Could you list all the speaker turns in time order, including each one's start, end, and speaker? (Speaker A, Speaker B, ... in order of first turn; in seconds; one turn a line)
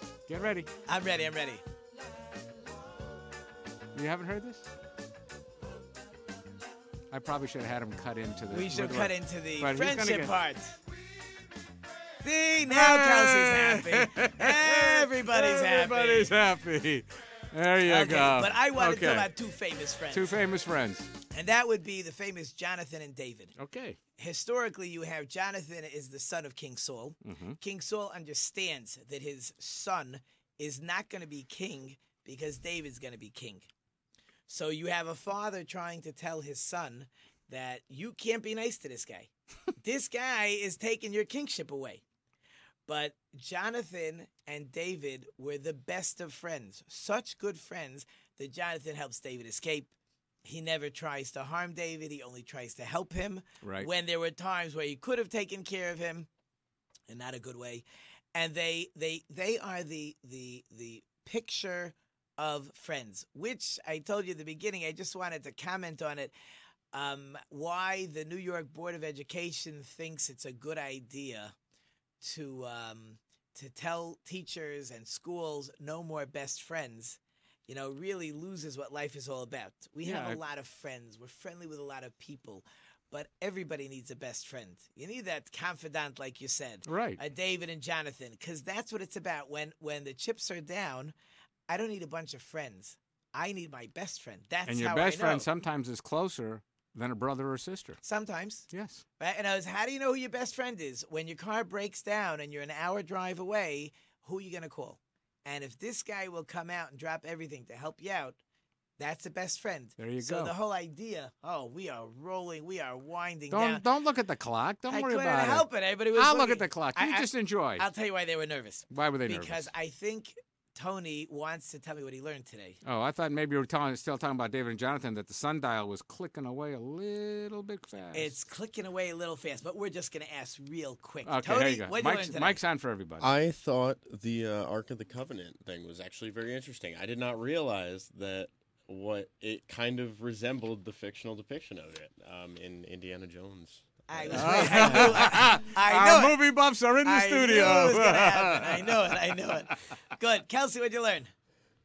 Speaker A: 0.3-0.7
Speaker B: 0.8-1.6
Speaker A: 3.9-4.7
Speaker A: 7.1-10.3
Speaker B: 8.5-10.7
Speaker B: 12.2-16.3
Speaker A: 12.7-19.3
Speaker B: 17.8-20.3
Speaker A: 20.1-21.1
Speaker B: 21.3-23.5
Speaker A: 23.6-24.0
Speaker B: 24.2-33.7
Speaker A: 27.2-27.6
Speaker B: 34.5-42.0
Speaker B: 42.9-49.9
Speaker B: 50.4-56.3
Speaker A: 53.6-53.9
Speaker B: 57.1-66.3
Speaker B: 66.9-71.5
Speaker B: 72.2-91.1
Speaker A: 80.0-80.4
Speaker A: 86.8-87.2
Speaker B: 91.7-95.5
Speaker A: 94.7-98.0
Speaker B: 98.0-98.7
Speaker A: 98.7-99.0
Speaker B: 99.2-108.4
Speaker B: 109.0-113.8
Speaker A: 110.0-110.5
Speaker A: 113.5-117.8
Speaker B: 114.9-122.8
Speaker A: 118.9-119.7
Speaker A: 122.8-128.3
Speaker B: 128.1-132.6
Speaker A: 131.2-133.3
Speaker C: 133.2-145.3
Speaker B: 144.1-146.4
Speaker A: 144.3-149.7
Speaker B: 147.0-151.3